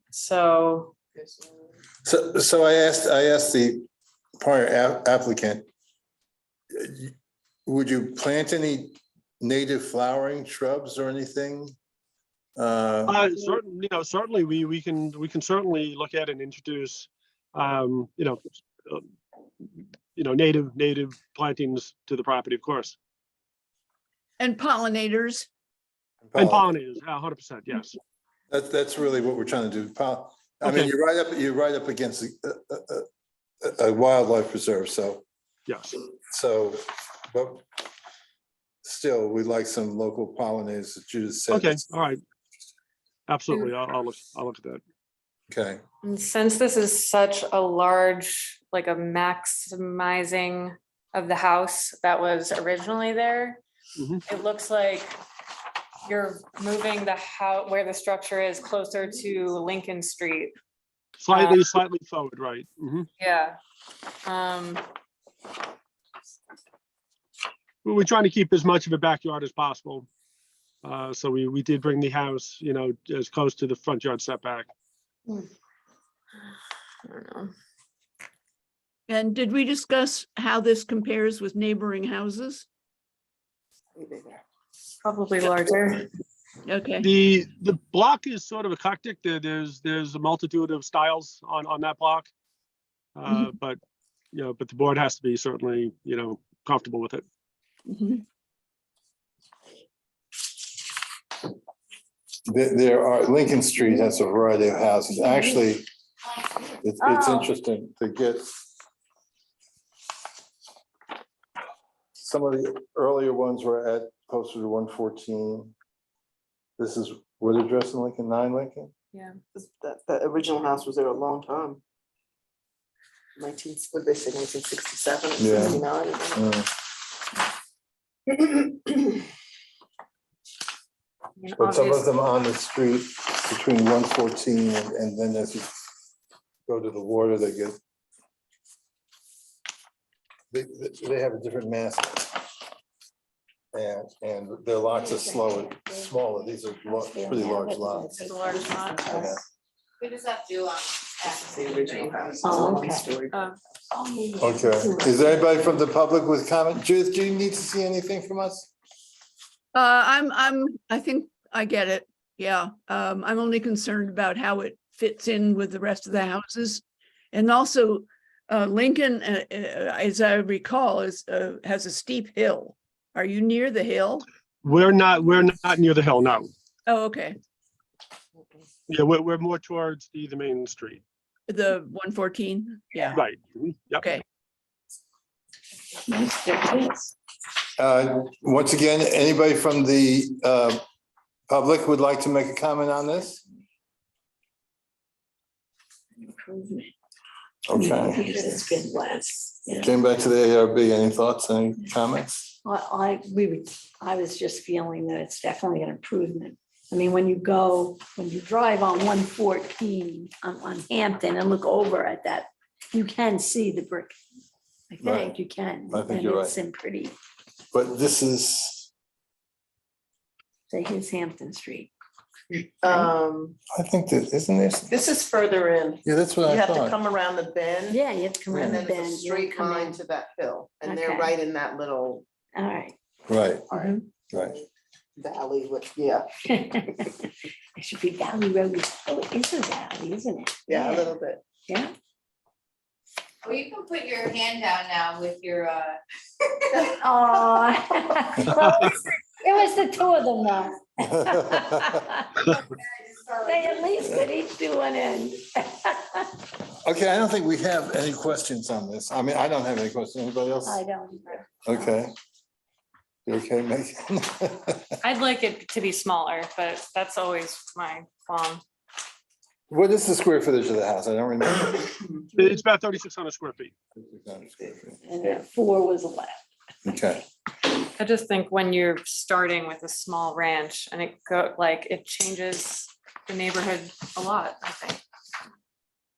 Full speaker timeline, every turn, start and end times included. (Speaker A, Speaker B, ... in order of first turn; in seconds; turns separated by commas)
Speaker A: 0.1-0.9, Speaker B: 1.1-1.7, Speaker C: 2.0-3.9, Speaker C: 4.4-5.7, Speaker C: 6.7-7.1, Speaker C: 7.7-11.8, Speaker C: 12.6-13.2, Speaker D: 13.1-19.1, Speaker D: 19.6-22.9, Speaker E: 24.4-25.5, Speaker C: 26.2-26.7, Speaker D: 26.4-28.0, Speaker C: 28.5-33.0, Speaker D: 30.6-30.9, Speaker C: 33.6-35.2, Speaker D: 35.7-36.0, Speaker C: 36.1-37.6, Speaker C: 38.8-41.8, Speaker D: 41.5-42.2, Speaker D: 43.3-44.8, Speaker C: 45.5-45.8, Speaker A: 46.0-53.6, Speaker D: 54.0-54.2, Speaker A: 54.2-55.2, Speaker A: 56.0-60.5, Speaker D: 61.2-63.1, Speaker A: 61.3-61.6, Speaker A: 63.2-63.6, Speaker A: 64.2-64.8, Speaker D: 67.8-70.1, Speaker D: 70.8-74.7, Speaker A: 77.0-77.5, Speaker E: 79.1-82.7, Speaker B: 83.9-84.4, Speaker A: 85.0-86.1, Speaker E: 86.7-87.1, Speaker D: 87.0-92.3, Speaker D: 93.2-93.8, Speaker D: 94.3-97.2, Speaker E: 97.8-98.2, Speaker C: 102.5-105.8, Speaker F: 106.3-106.7, Speaker C: 106.8-108.4, Speaker G: 107.0-107.5, Speaker C: 112.2-115.7, Speaker C: 116.8-118.9, Speaker B: 119.5-121.8, Speaker B: 123.4-126.4, Speaker C: 125.4-125.8, Speaker C: 126.3-126.7, Speaker B: 128.3-129.2, Speaker A: 131.4-132.1, Speaker C: 131.6-135.7, Speaker C: 136.7-137.8, Speaker C: 140.5-142.4, Speaker C: 143.7-148.1, Speaker G: 145.0-149.3, Speaker A: 148.1-149.3, Speaker C: 149.1-149.4, Speaker F: 150.0-152.3, Speaker B: 151.2-153.5, Speaker G: 152.4-153.1, Speaker A: 153.3-153.6, Speaker G: 153.9-155.5, Speaker C: 154.4-158.7, Speaker E: 159.7-174.2, Speaker D: 174.6-176.5, Speaker E: 176.8-177.4, Speaker B: 178.4-178.6, Speaker D: 178.9-181.0, Speaker E: 181.5-183.2, Speaker D: 183.1-184.1, Speaker E: 184.0-184.2, Speaker G: 186.1-187.1, Speaker C: 187.8-190.8, Speaker C: 191.5-193.4, Speaker G: 196.1-196.9, Speaker C: 197.7-198.3, Speaker G: 197.7-199.9, Speaker C: 199.8-202.6, Speaker G: 202.6-214.1, Speaker G: 214.9-217.1, Speaker C: 215.0-215.3, Speaker C: 215.9-216.5, Speaker C: 217.7-218.9, Speaker G: 220.7-221.9, Speaker B: 222.8-223.6, Speaker G: 222.8-223.1, Speaker C: 223.7-224.9, Speaker B: 224.9-232.3, Speaker C: 226.0-227.0, Speaker G: 227.9-230.0, Speaker C: 228.5-228.8, Speaker G: 230.8-231.3, Speaker G: 232.5-232.9, Speaker C: 233.3-233.7, Speaker B: 233.7-236.3, Speaker G: 236.4-237.2, Speaker G: 237.8-241.1, Speaker B: 240.7-241.4, Speaker G: 241.7-241.9, Speaker F: 243.4-246.0, Speaker G: 246.8-252.4, Speaker D: 248.5-248.9, Speaker C: 251.0-252.0, Speaker F: 252.8-253.9, Speaker G: 253.4-256.3, Speaker C: 256.8-260.8, Speaker G: 260.6-261.9, Speaker C: 261.6-262.1, Speaker C: 263.2-264.9, Speaker A: 265.0-268.6, Speaker C: 269.7-272.1, Speaker D: 272.3-273.7, Speaker C: 273.9-275.0, Speaker G: 275.0-276.4, Speaker C: 276.8-277.2, Speaker A: 278.0-285.0